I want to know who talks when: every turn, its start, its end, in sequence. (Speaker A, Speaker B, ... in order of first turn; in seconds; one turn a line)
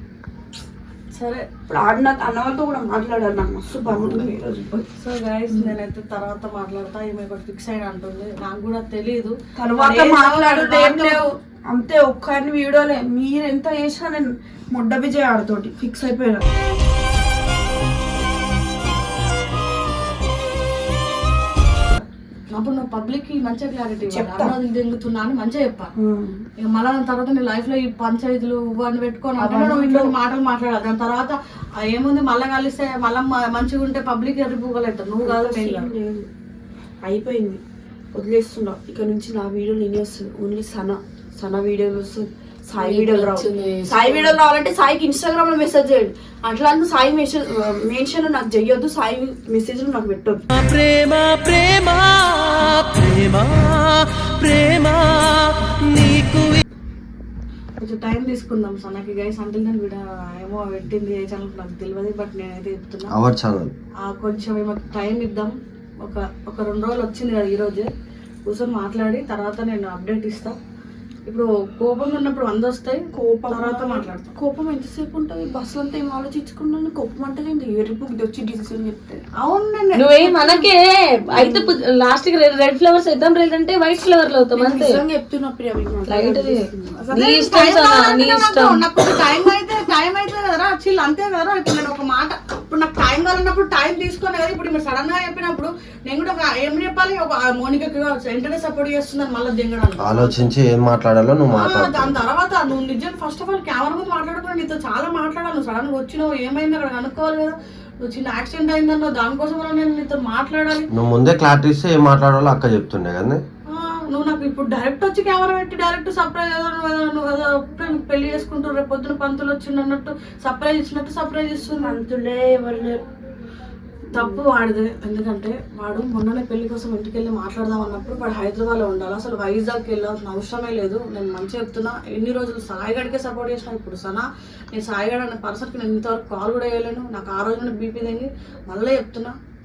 Speaker A: 1.1-1.5
Speaker B: 1.7-4.8
Speaker C: 3.9-4.4
Speaker A: 5.0-11.2
Speaker B: 9.6-16.4
Speaker A: 22.0-25.9
Speaker B: 24.1-24.6
Speaker B: 26.0-26.4
Speaker A: 26.6-35.9
Speaker B: 29.4-30.1
Speaker B: 35.2-36.3
Speaker B: 37.0-37.6
Speaker B: 38.1-50.4
Speaker D: 42.8-44.4
Speaker E: 50.5-56.6
Speaker A: 57.8-63.1
Speaker C: 63.1-63.7
Speaker A: 64.0-65.5
Speaker A: 66.0-67.9
Speaker A: 68.5-70.6
Speaker A: 71.3-74.3
Speaker B: 73.1-79.2
Speaker A: 79.4-80.7
Speaker D: 79.9-85.0
Speaker B: 81.3-81.7
Speaker B: 84.6-87.1
Speaker D: 86.1-86.6
Speaker A: 87.1-100.5
Speaker D: 87.1-88.9
Speaker C: 100.0-102.2
Speaker A: 101.5-110.9
Speaker C: 110.9-113.4
Speaker A: 113.7-122.0
Speaker B: 121.8-123.0
Speaker B: 124.1-124.4
Speaker A: 124.1-139.3